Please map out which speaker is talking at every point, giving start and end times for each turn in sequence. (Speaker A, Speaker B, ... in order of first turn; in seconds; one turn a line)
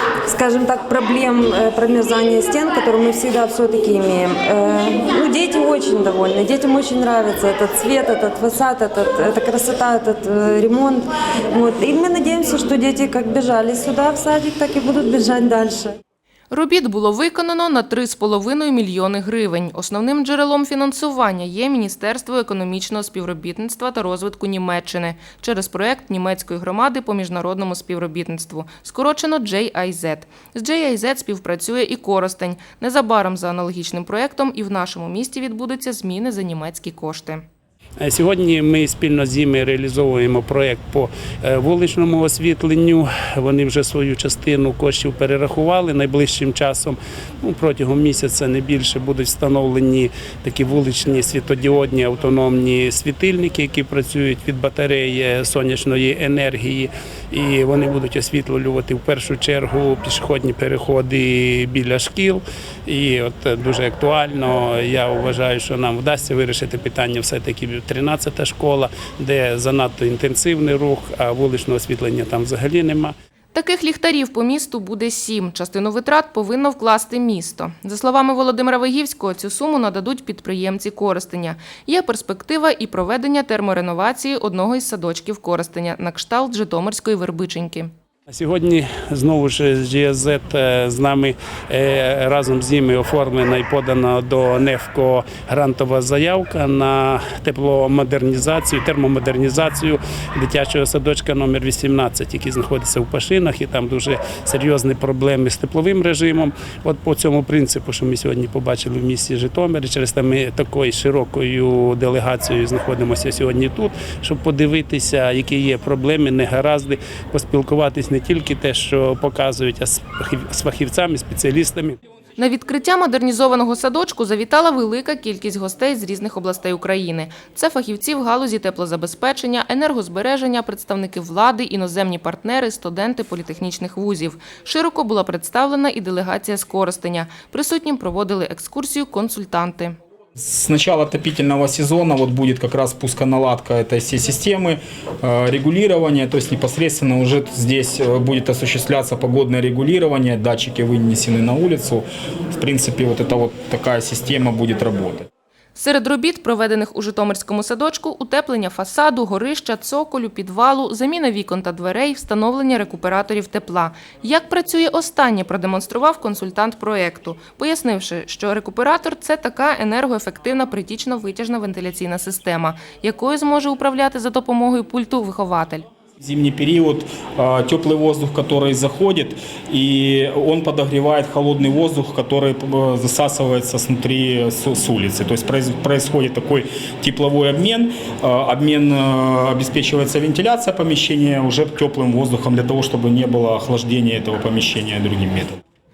Speaker A: 0.3-16.0
Speaker B: 16.5-37.4
Speaker C: 38.0-73.1
Speaker B: 73.5-87.9
Speaker C: 88.3-122.0
Speaker B: 122.4-140.0
Speaker D: 140.4-155.3
Speaker B: 155.7-175.9
Speaker D: 176.2-195.6